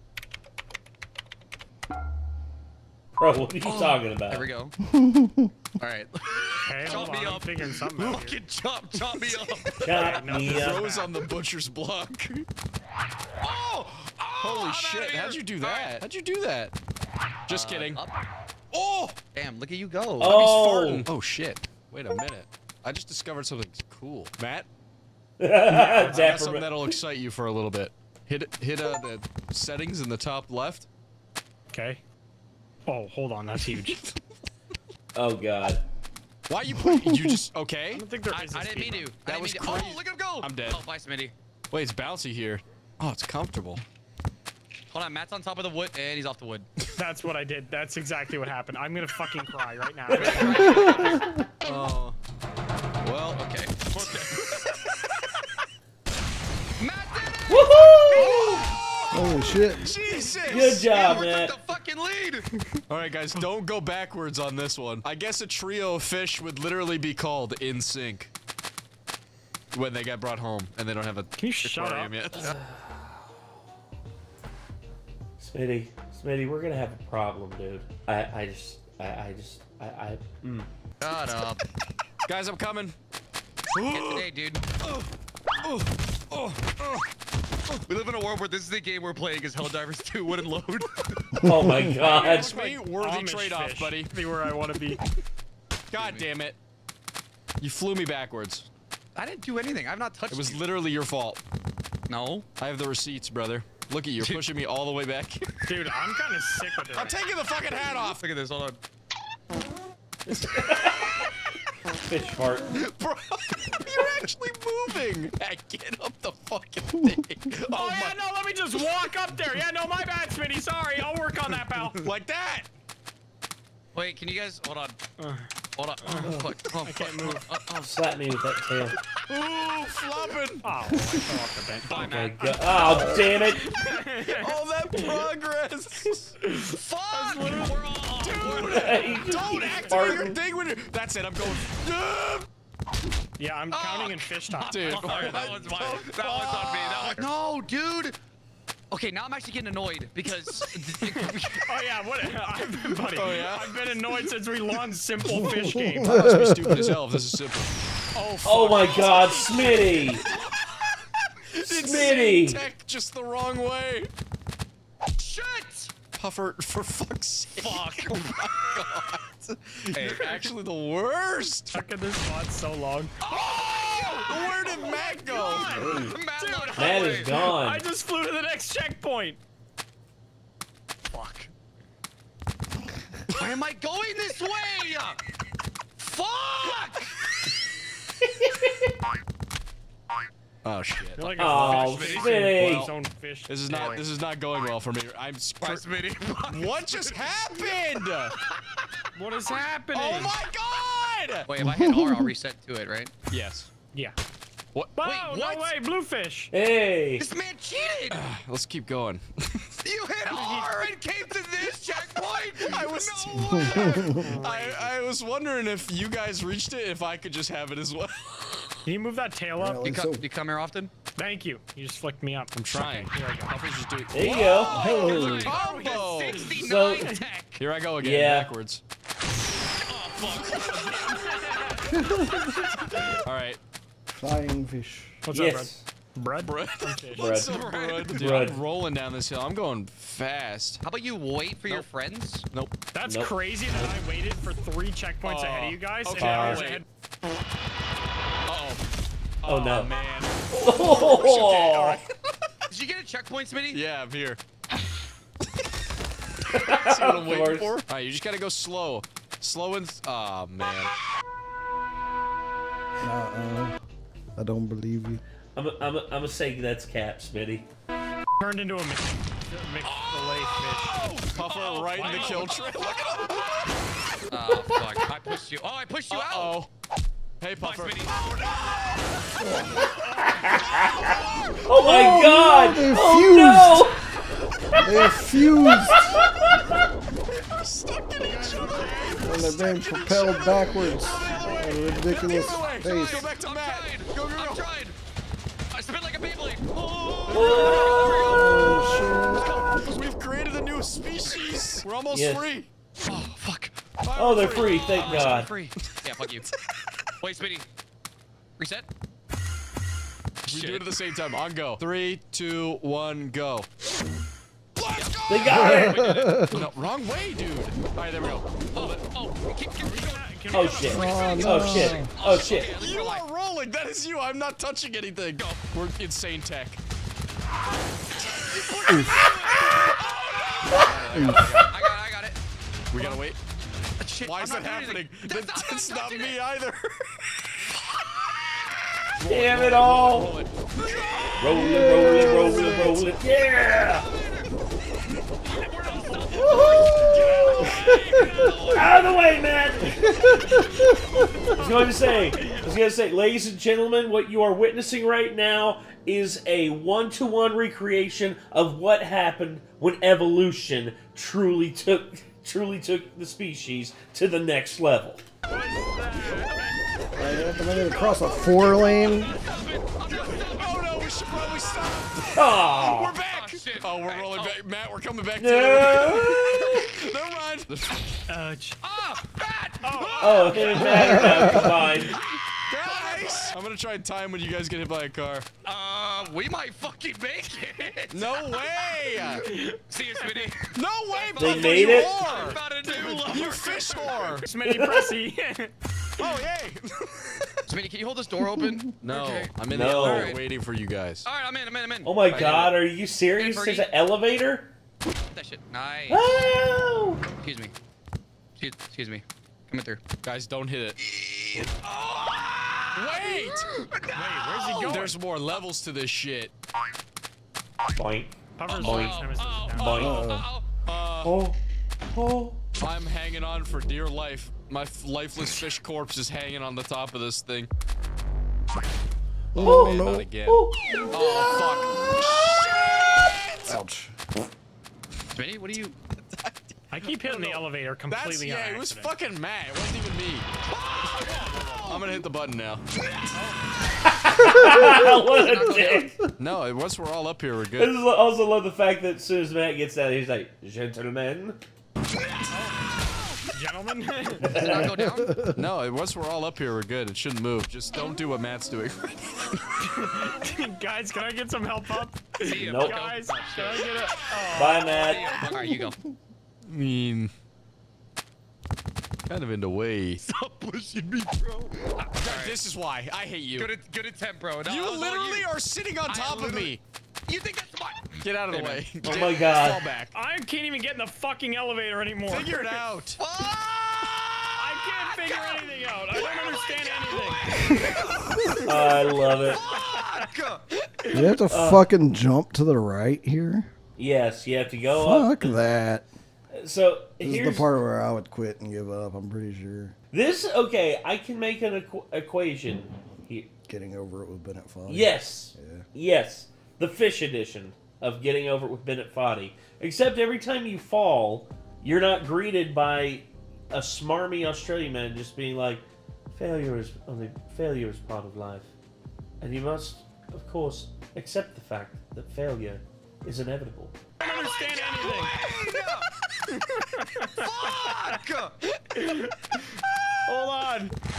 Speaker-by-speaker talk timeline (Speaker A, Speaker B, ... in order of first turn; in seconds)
Speaker A: 3.2-4.5, 9.8-10.8, 20.2-21.1, 25.4-26.9, 35.1-35.8, 50.1-51.1, 57.5-58.6, 60.4-61.6, 72.5-73.3, 75.4-80.7, 91.4-92.5, 110.3-111.3, 112.1-112.8, 127.8-129.0, 132.0-133.6, 138.6-140.4, 158.4-160.2, 161.7-162.7, 175.8-176.2, 176.8-177.8, 188.2-188.8, 191.4-192.9, 206.5-207.3, 224.1-225.3, 226.5-227.2, 228.0-228.5, 235.3-235.8, 237.2-238.6, 243.1-243.9, 246.2-246.7, 249.5-249.9, 250.5-252.0, 256.5-257.8, 265.6-267.7, 274.5-274.9, 280.2-284.0, 284.8-285.1, 285.8-286.7, 297.3-298.4, 302.1-302.5, 304.1-305.5, 315.3-316.2, 320.5-322.8, 339.3-340.3, 341.4-344.1, 346.5-350.6, 351.5-365.2, 372.3-373.2, 375.4-377.0, 380.2-382.2, 391.4-392.5, 394.6-395.1, 399.6-400.4, 402.0-404.7, 406.1-407.2, 417.9-419.2, 419.8-420.4, 421.2-421.6, 422.1-422.6, 429.6-431.8, 444.0-446.3, 447.8-451.6, 454.4-454.9, 462.5-463.0, 464.5-465.6, 479.0-479.9, 488.6-489.6, 491.5-491.9, 494.0-495.7, 496.5-497.7, 500.1-503.5, 504.9-518.7, 519.4-524.0
Speaker B: 3.6-4.7, 5.8-10.2, 13.4-16.0, 17.5-18.2, 19.3-20.4, 38.3-41.3, 44.9-46.7, 50.2-51.5, 53.4-54.8, 56.8-62.5, 81.0-81.6, 83.9-84.7, 87.9-91.3, 95.9-96.2, 99.2-100.6, 102.1-102.5, 104.2-104.4, 107.7-108.8, 123.9-125.0, 125.8-128.5, 131.8-132.5, 136.6-139.5, 143.7-148.2, 148.9-151.7, 165.2-165.9, 167.6-169.0, 169.9-170.5, 173.2-177.3, 183.3-185.2, 186.0-187.1, 191.6-192.3, 195.6-197.8, 198.4-198.8, 201.5-203.1, 205.0-205.7, 207.2-208.3, 209.8-214.9, 219.8-220.9, 224.4-227.6, 229.9-231.7, 237.4-238.3, 240.8-242.5, 252.7-253.8, 269.8-273.2, 274.3-276.6, 277.6-278.2, 292.1-295.0, 295.7-298.6, 299.8-300.1, 301.2-301.8, 303.0-303.8, 304.6-306.5, 307.2-307.7, 308.6-308.9, 310.5-310.9, 314.9-316.7, 318.2-323.2, 325.4-325.6, 328.9-329.7, 330.7-332.4, 334.0-336.4, 340.8-342.5, 343.8-344.5, 345.6-349.3, 369.2-370.8, 373.1-374.6, 376.5-376.9, 378.8-382.2, 382.8-383.6, 385.6-388.4, 389.4-394.3, 397.7-400.4, 401.2-402.7, 403.4-403.9, 405.3-406.2, 407.4-407.7, 408.6-410.1, 411.0-414.9, 418.7-420.7, 431.1-431.6, 435.3-436.1, 440.7-442.1, 444.7-446.1, 453.1-453.4, 454.5-455.4, 462.4-466.0, 470.2-472.6, 473.6-475.5, 476.1-479.4, 483.2-484.5, 485.1-488.7, 489.4-490.7, 524.2-526.1, 527.4-528.7, 529.8-530.1
Speaker C: 4.9-5.5, 59.1-59.9, 91.4-92.0, 156.0-157.0, 201.6-202.3, 213.7-214.1, 219.6-220.3, 224.7-225.6, 232.0-232.4, 234.1-235.2, 263.0-263.8, 264.4-265.2, 279.4-279.9, 281.8-283.9, 284.8-286.2, 289.2-293.3, 298.3-299.5, 315.6-316.6, 320.8-322.1, 341.5-343.1, 367.1-369.4, 381.2-381.7, 420.0-420.5, 429.5-430.3, 433.7-434.2, 455.0-455.4, 491.1-493.7, 494.9-496.1, 497.2-499.9, 503.7-505.9
Speaker D: 6.6-8.4, 9.8-11.2, 31.7-32.0, 32.9-34.1, 37.9-39.1, 47.0-50.6, 71.4-72.2, 92.0-95.1, 105.7-107.2, 117.7-122.1, 125.2-125.5, 126.0-127.5, 130.6-135.2, 136.4-137.9, 139.4-140.3, 143.4-147.1, 151.0-156.2, 158.1-160.1, 171.7-173.1, 175.2-179.4, 181.1-181.5, 191.2-194.1, 199.2-200.4, 204.9-206.5, 210.3-210.9, 214.1-214.7, 218.8-219.9, 221.2-223.6, 230.7-233.1, 235.2-237.5, 242.9-246.8, 268.4-271.1, 271.9-272.6, 280.0-280.5, 319.8-322.0, 345.9-346.5, 352.4-352.6, 365.5-366.8, 378.3-378.8, 379.8-381.5, 389.4-390.5, 394.3-395.7, 414.1-415.2, 418.6-420.1, 436.9-439.1, 441.4-441.8, 443.3-443.6, 452.5-452.9, 453.5-454.6, 459.8-465.6, 480.1-482.8, 484.6-487.5, 489.5-490.3, 491.0-491.4, 524.2-525.4, 526.7-528.2, 528.9-529.7, 530.3-531.0
Speaker E: 10.5-12.5, 14.4-16.7, 17.5-18.0, 18.7-19.2, 20.2-24.7, 25.7-30.9, 36.5-38.1, 39.2-40.8, 41.7-43.8, 51.6-52.2, 53.0-53.4, 54.0-55.1, 58.1-61.1, 62.9-68.3, 69.7-72.5, 82.3-83.0, 83.7-84.3, 85.6-86.5, 92.0-94.1, 95.9-96.6, 97.6-98.7, 100.3-101.4, 102.6-105.7, 106.9-108.2, 112.8-118.2, 122.0-122.7, 129.3-130.7, 134.3-136.3, 138.2-142.5, 144.7-146.1, 146.6-147.3, 153.1-153.8, 156.0-157.8, 161.5-164.1, 166.1-171.7, 173.5-175.8, 190.6-191.4, 192.4-192.9, 193.5-195.8, 196.5-198.3, 199.9-201.5, 203.3-203.7, 208.1-209.8, 212.6-218.8, 222.6-226.5, 227.6-228.8, 233.2-233.6, 236.4-240.8, 245.2-246.8, 248.5-248.8, 249.4-252.1, 253.7-254.4, 256.7-260.9, 271.3-273.6, 276.1-276.7, 277.4-279.9, 287.3-294.7, 297.3-302.7, 304.0-306.9, 310.5-313.7, 314.8-319.0, 322.7-326.8, 328.3-331.7, 332.9-333.4, 334.2-337.7, 339.2-341.5, 346.9-348.6, 350.5-350.9, 367.4-369.2, 370.5-378.2, 382.7-385.5, 388.1-389.4, 390.7-394.5, 396.2-397.6, 399.0-401.3, 410.2-411.0, 412.9-413.7, 414.8-416.5, 420.9-421.4, 422.8-427.7, 429.6-433.8, 436.4-440.5, 441.9-442.8, 446.4-447.9, 455.5-459.6, 466.7-467.3, 469.3-470.2, 472.2-473.7, 474.6-476.8, 478.2-480.1, 482.3-483.2, 488.2-488.8